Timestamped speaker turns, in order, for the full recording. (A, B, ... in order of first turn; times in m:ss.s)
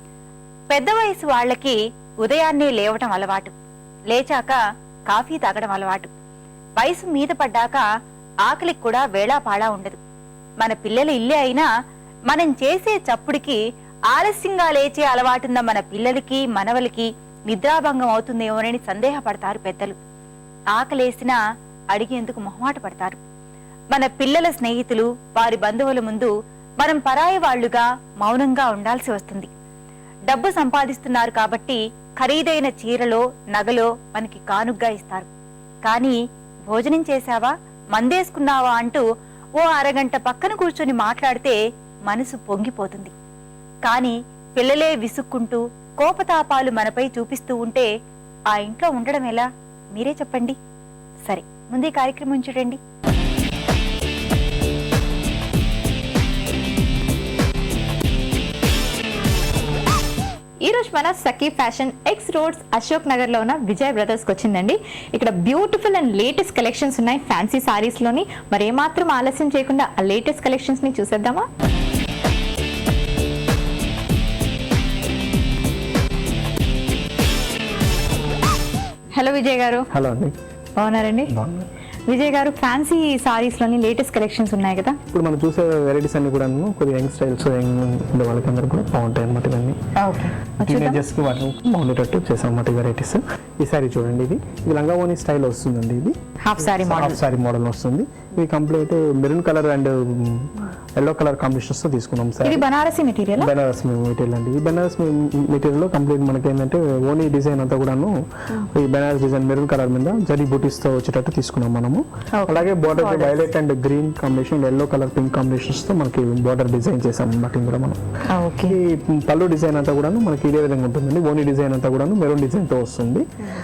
0:00.7-0:03.5 A
0:04.1-0:06.1 A
0:06.8-0:07.8 A
0:08.4-0:10.0 A
0:10.6-0:11.7 A
0:12.3-0:13.6 A
0:14.1-0:20.0 A
0:20.8-0:21.4 A
0:21.9-0:23.2 A
0:23.9-0:29.5 A
0:30.3-0:35.3 A
0:35.9-0:36.2 A
0:36.7-0:39.0 A
0:39.6-0:41.6 A
0:42.1-0:43.1 A
0:43.9-0:47.9 A
0:48.5-0:50.6 A
0:51.3-0:52.8 A
1:00.6-1:11.5 B
1:19.1-1:19.9 B
1:19.9-1:20.4 C
1:20.8-1:21.3 B
1:21.3-1:21.7 C
1:22.1-1:25.0 B
1:25.1-1:29.8 C
1:30.0-1:31.0 B
1:30.6-1:36.2 C
1:36.4-1:37.2 B
1:36.7-1:42.6 C
1:42.4-1:43.5 B
1:43.4-1:48.2 C
1:48.7-1:58.0 C
1:52.4-1:53.5 B
1:58.3-1:58.8 B
1:58.6-2:03.3 C